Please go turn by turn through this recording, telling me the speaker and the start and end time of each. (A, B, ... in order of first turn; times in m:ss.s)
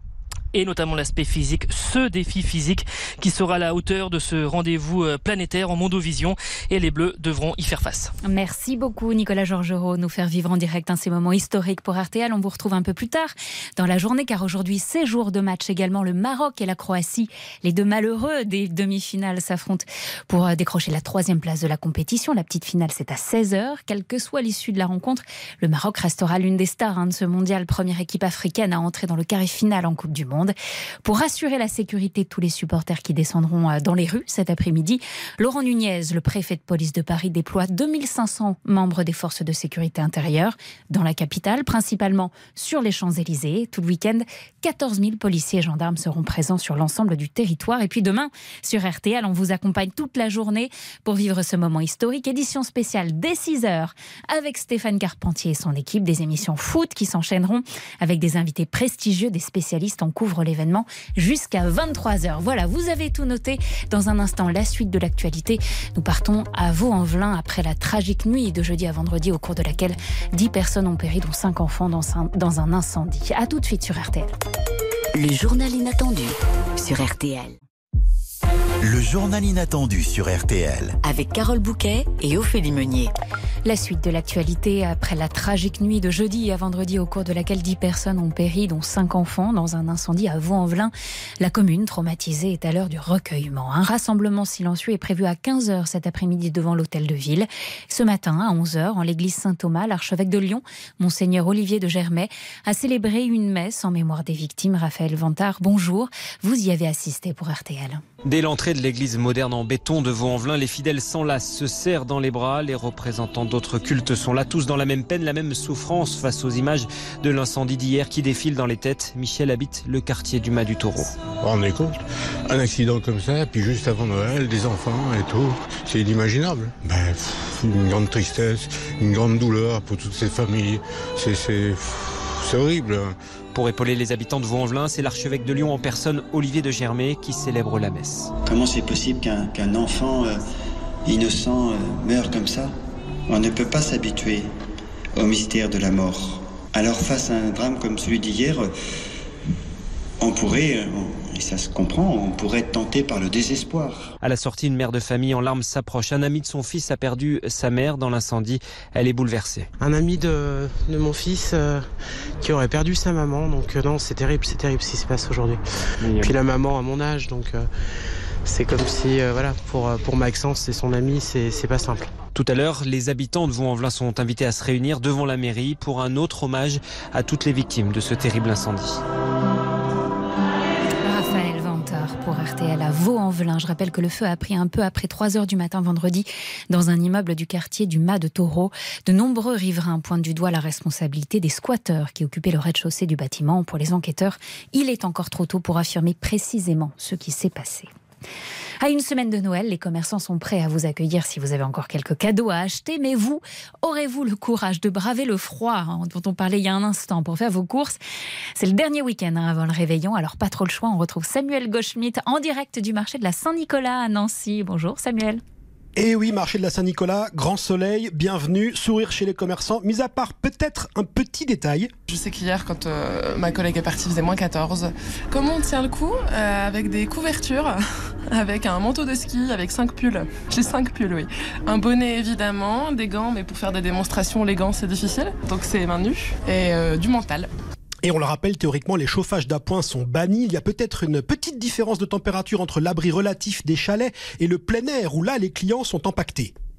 0:00.5-0:08.1 A
0:08.2-1:14.3 B
1:15.1-1:17.6 C
1:18.8-1:21.0 D
1:21.0-1:23.1 C
1:23.6-1:48.0 B
1:48.2-2:01.2 E
2:01.4-2:13.2 F
2:13.5-2:18.3 E
2:18.4-2:20.4 G
2:21.0-2:22.7 G
2:23.3-2:24.5 G
2:25.2-2:28.7 G
2:30.2-2:34.1 G
2:34.2-2:39.7 E
2:39.8-2:41.9 H
2:42.4-2:47.7 H
2:48.4-2:52.1 H
2:52.3-2:59.0 E
3:01.0-3:17.9 B
3:18.8-3:28.0 B
3:28.6-3:35.4 B
3:36.0-3:41.9 I
3:42.1-3:57.5 J
3:58.0-4:06.5 I